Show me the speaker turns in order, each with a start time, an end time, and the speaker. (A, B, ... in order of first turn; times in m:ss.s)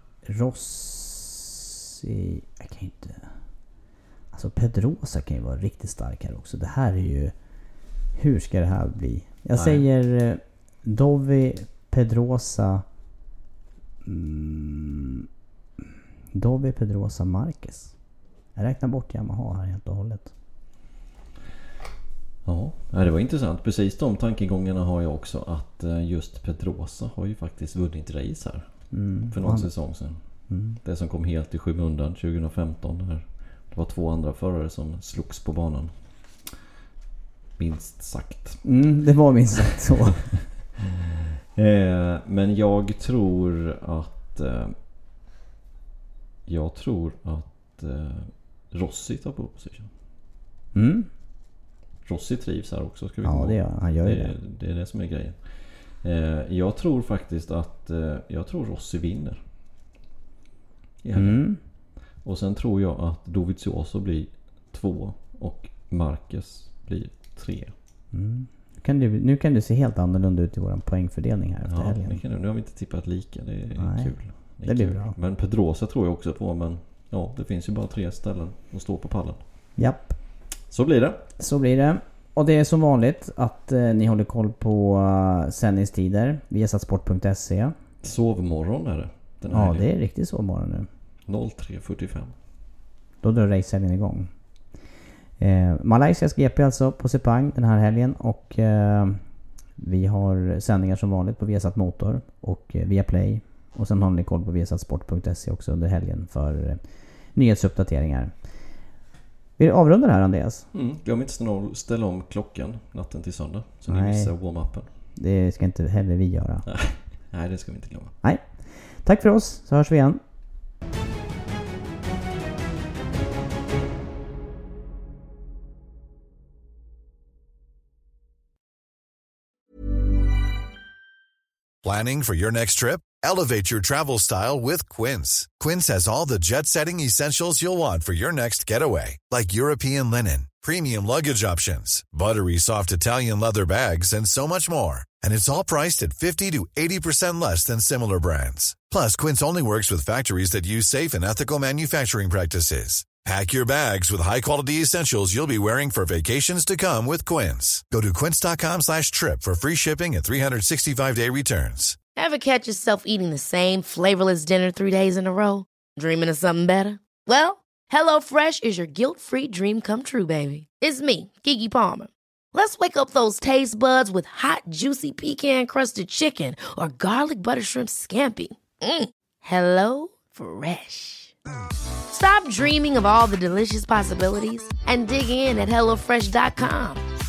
0:00.2-0:03.3 A
0:04.3-0:07.3 A
0:08.1-0:12.8 A
0:09.5-0:09.8 B
0:14.0-0:15.2 A
0:16.3-0:18.0 A
0:18.6-0:20.3 A
0:22.4-0:36.0 B
0:28.9-0:29.9 A
0:30.5-0:30.8 A
0:37.6-0:38.6 B
0:38.6-0:40.5 A
0:41.0-0:44.8 B
0:46.4-0:49.9 B
0:50.7-0:51.1 A
0:52.0-0:59.4 B
0:53.2-0:54.3 A
1:01.0-1:01.5 B
1:01.1-1:01.6 A
1:02.2-1:07.7 B
1:08.1-1:12.2 A
1:11.6-1:19.4 B
1:13.8-1:15.1 A
1:19.8-1:20.2 A
1:20.7-1:21.3 B
1:21.4-1:27.7 A
1:28.0-1:29.9 B
1:29.5-1:30.9 A
1:31.2-1:32.3 B
1:33.2-1:34.3 A
1:35.4-1:39.2 A
1:39.8-1:46.8 A
1:47.3-1:48.3 A
1:49.6-1:50.7 A
1:50.7-1:54.9 B
1:53.9-1:54.3 A
1:55.1-1:56.6 A
1:56.6-1:58.1 B
1:58.2-2:00.2 A
2:11.8-2:42.0 C
2:42.2-3:01.3 D
3:02.1-3:07.0 D